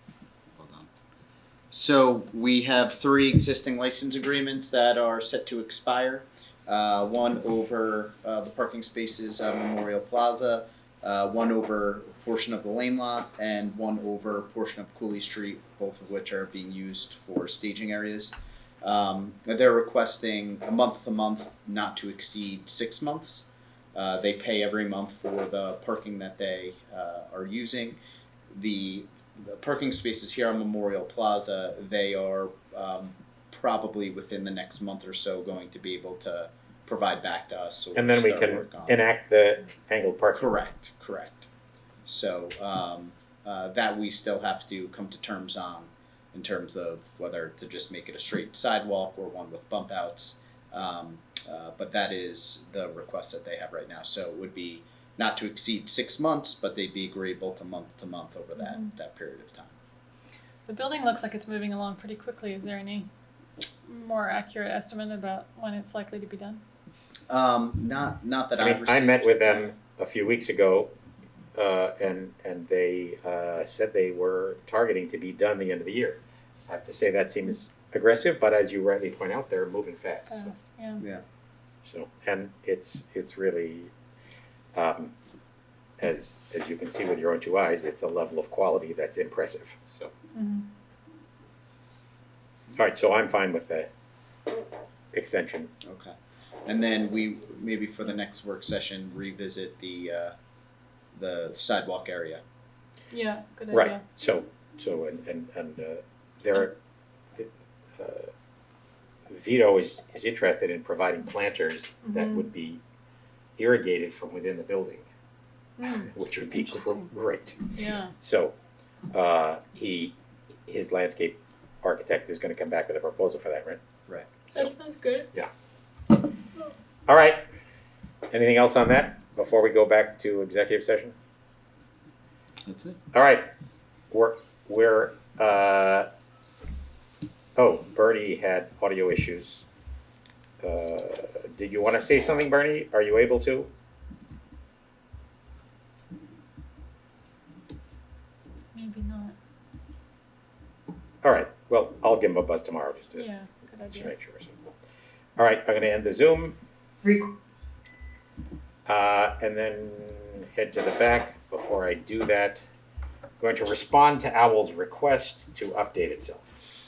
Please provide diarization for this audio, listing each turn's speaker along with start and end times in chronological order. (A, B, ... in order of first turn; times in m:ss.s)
0:00.6-0:00.9 A
0:01.7-0:28.0 A
0:28.5-0:39.0 A
0:37.9-0:40.6 B
0:40.4-0:41.5 A
0:42.0-0:59.7 A
0:58.6-0:58.9 C
1:00.7-1:03.1 C
1:03.8-1:06.6 C
1:07.3-1:09.5 A
1:08.6-1:10.9 B
1:11.6-1:20.5 B
1:20.3-1:21.0 C
1:21.8-1:23.9 B
1:24.7-1:25.1 B
1:26.0-1:30.1 B
1:30.3-1:30.7 C
1:32.7-1:33.9 B
1:35.1-1:35.7 B
1:35.8-1:36.1 A
1:36.6-1:40.3 A
1:41.1-1:42.4 A
1:43.1-1:44.0 C
1:43.7-1:46.8 B
1:47.4-1:48.3 B
1:49.3-1:52.8 B
1:52.0-1:52.5 C
1:53.6-1:55.1 B
1:55.8-1:56.1 C
1:56.0-1:57.6 B
1:57.7-1:58.1 C
1:58.2-1:58.5 B
1:59.1-2:03.8 B
2:04.5-2:05.3 C
2:07.1-2:07.4 B
2:08.3-2:11.1 B
2:12.6-2:13.0 A
2:13.1-2:13.5 B
2:14.1-2:16.1 B
2:17.6-2:19.6 B
2:20.6-2:23.7 B
2:28.7-2:29.3 C
2:31.2-2:33.2 B
2:33.2-2:34.1 C
2:33.9-2:34.6 B
2:35.4-2:36.6 B
2:38.8-2:42.6 B
2:43.4-2:46.6 B